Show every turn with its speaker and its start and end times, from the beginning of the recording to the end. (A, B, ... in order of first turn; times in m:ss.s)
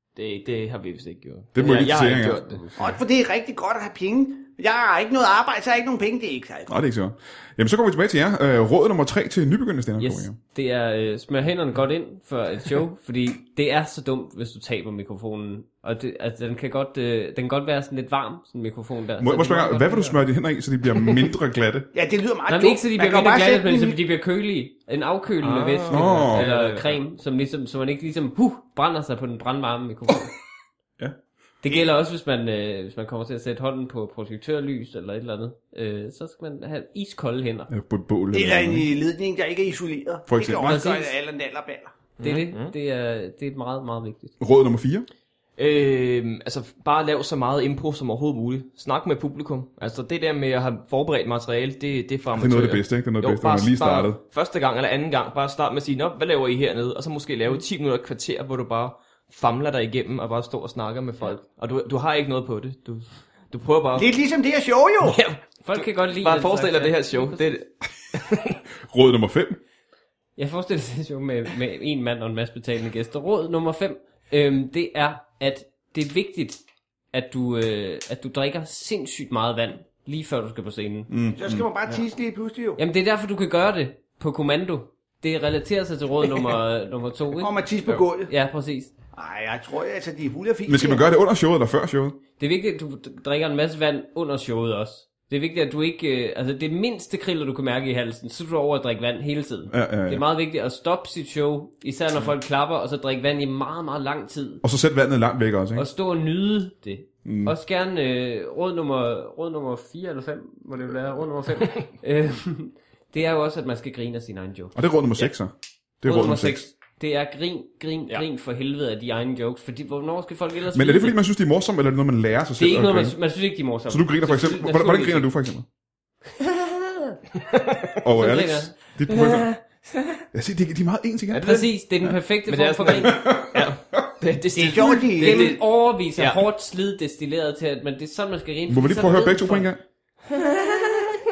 0:00.2-0:02.8 A
0:01.5-0:02.4 B
0:02.8-0:06.7 C
0:06.7-0:10.4 B
0:10.0-0:20.2 D
0:19.2-0:21.9 B
0:21.9-0:24.0 C
0:22.5-0:30.4 D
0:25.4-0:27.0 A
0:25.9-0:26.5 B
0:31.6-0:37.7 D
0:37.7-0:38.9 B
0:38.3-0:41.9 C
0:40.3-0:40.8 B
0:40.6-0:41.1 D
0:42.2-0:42.7 A
0:42.2-0:44.3 D
0:44.4-0:45.1 B
0:45.6-1:04.1 A
0:52.4-0:54.2 B
1:04.0-1:05.2 C
1:05.0-1:08.6 A
1:05.6-1:07.6 D
1:08.9-1:09.6 B
1:10.4-1:16.6 D
1:17.1-1:21.1 D
1:21.1-1:21.7 B
1:21.4-1:22.8 C
1:22.8-1:27.7 D
1:27.4-1:28.3 C
1:28.2-1:28.9 D
1:29.1-1:31.0 C
1:30.7-1:32.2 B
1:32.4-1:44.6 D
1:39.7-1:40.2 B
1:44.6-1:45.9 B
1:45.8-1:55.2 D
1:47.2-1:47.5 B
1:54.8-1:56.7 B
1:56.0-2:01.2 D
2:00.7-2:03.2 B
2:02.6-2:05.3 D
2:03.9-2:05.6 B
2:06.4-2:07.2 D
2:07.4-2:07.9 A
2:08.0-2:09.5 B
2:08.1-2:08.7 D
2:09.1-2:10.2 A
2:10.3-2:11.5 B
2:11.3-2:11.7 A
2:11.4-2:13.3 D
2:12.5-2:15.6 A
2:13.1-2:14.0 B
2:14.6-2:15.6 C
2:15.2-2:19.7 D
2:16.2-2:16.4 A
2:18.7-2:19.8 B
2:20.4-2:21.0 A